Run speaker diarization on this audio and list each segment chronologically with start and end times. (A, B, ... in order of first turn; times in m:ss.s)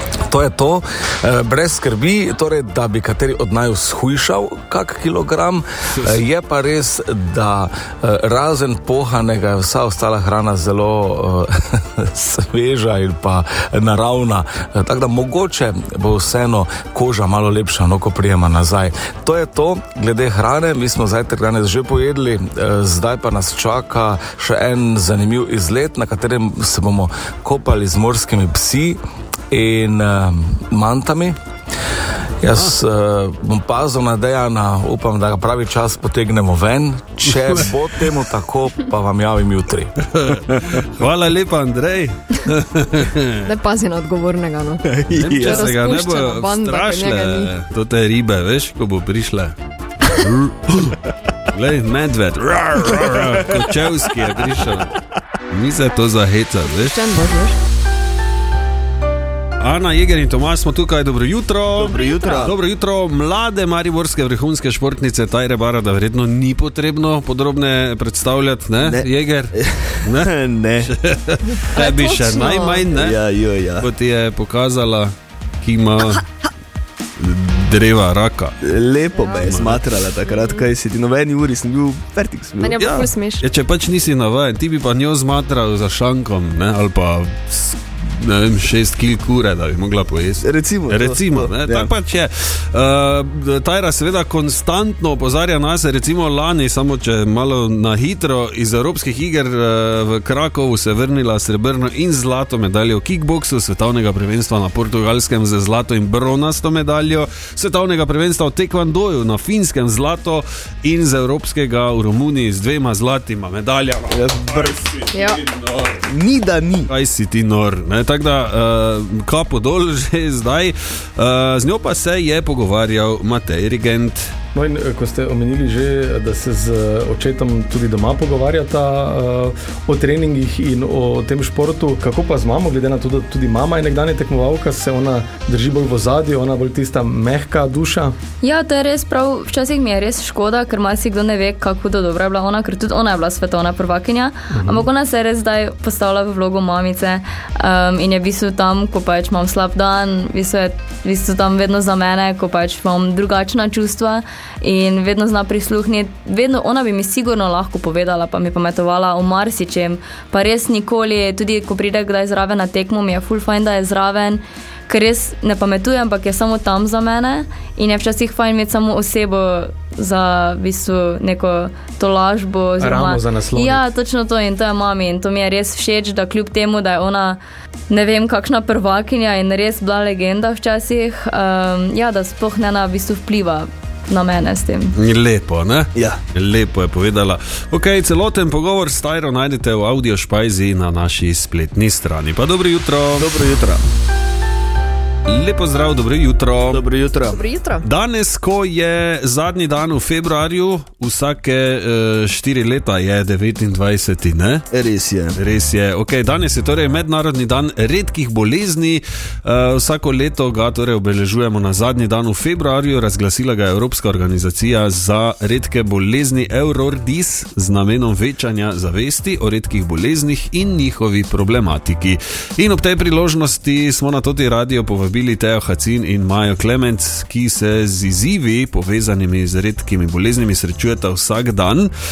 0:00.3-0:29.0 A
0:05.9-0:06.2 B
0:29.5-0:31.4 A
0:32.4-0:39.9 A
0:37.3-0:37.7 B
0:40.1-0:43.5 B
0:43.5-0:44.8 C
0:44.8-0:45.6 D
0:45.1-0:49.5 B
0:45.4-0:47.5 C
0:50.2-0:50.7 B
0:51.5-0:54.9 B
0:55.5-0:57.1 B
0:56.8-0:57.5 C
0:59.6-1:13.2 B
1:01.8-1:02.5 D
1:02.0-1:02.4 C
1:08.8-1:10.9 D
1:11.8-1:12.8 C
1:12.9-1:13.9 D
1:13.8-1:16.2 B
1:17.2-1:18.5 B
1:18.6-1:22.8 D
1:19.1-1:19.5 C
1:19.3-1:19.9 B
1:20.2-1:20.6 C
1:22.6-1:23.4 C
1:22.7-1:56.0 B
1:30.4-1:31.9 D
1:54.1-1:54.8 D
1:55.1-1:55.4 C
1:56.1-1:56.9 D
1:56.9-2:04.3 B
2:04.5-2:18.1 E
2:18.5-2:27.1 F
2:24.5-2:24.9 E
2:27.8-2:34.0 F
2:34.7-2:35.9 F
2:36.5-2:44.3 F
2:44.9-2:57.2 F
2:52.8-2:53.9 E
2:57.9-3:03.6 F
3:04.1-3:04.8 F
3:04.9-3:13.4 B
3:13.2-3:13.8 D
3:15.3-3:16.8 B
3:16.7-3:17.4 D
3:17.3-3:17.8 C
3:17.8-3:24.6 B
3:24.7-3:25.4 D
3:25.3-3:51.9 B